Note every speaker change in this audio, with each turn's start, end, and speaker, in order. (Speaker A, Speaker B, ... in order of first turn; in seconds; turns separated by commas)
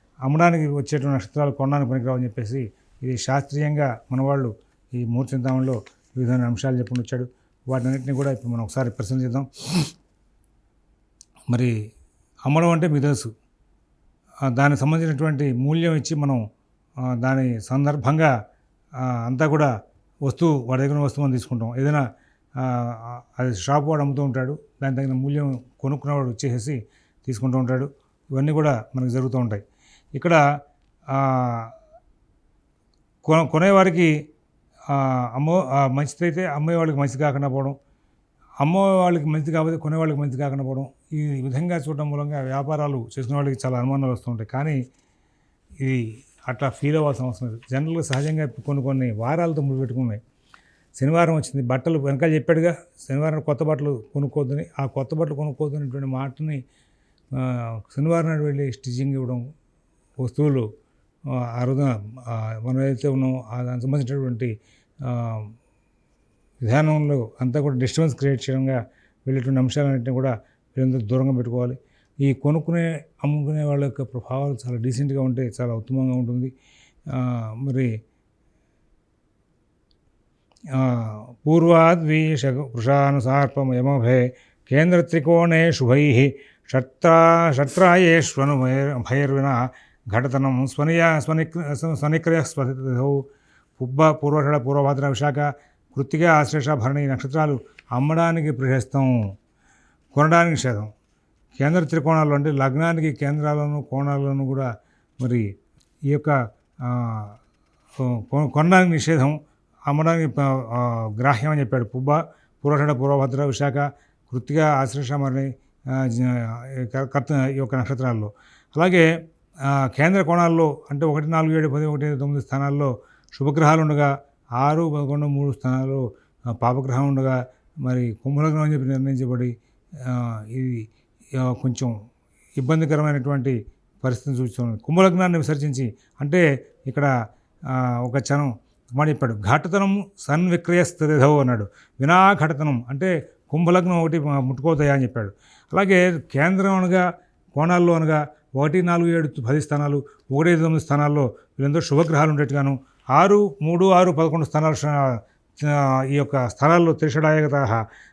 Speaker A: 0.3-9.9, Speaker A: 12.5-13.3, Speaker A: 14.5-16.4, Speaker A: 17.2-18.3, Speaker A: 19.0-19.7, Speaker A: 20.3-22.0, Speaker A: 22.6-29.6, Speaker A: 31.1-31.7, Speaker A: 33.2-34.1, Speaker A: 34.9-37.8, Speaker A: 38.6-44.8, Speaker A: 45.8-50.2, Speaker A: 51.0-56.6, Speaker A: 57.3-59.5, Speaker A: 60.2-60.7, Speaker A: 61.5-64.5, Speaker A: 65.0-65.5, Speaker A: 66.6-76.5, Speaker A: 77.1-77.9, Speaker A: 80.7-93.2, Speaker A: 93.8-99.2, Speaker A: 100.1-100.9, Speaker A: 101.6-104.7, Speaker A: 106.1-107.4, Speaker A: 108.0-119.1, Speaker A: 119.7-130.9, Speaker A: 131.4-131.9, Speaker A: 132.6-137.1, Speaker A: 137.7-157.8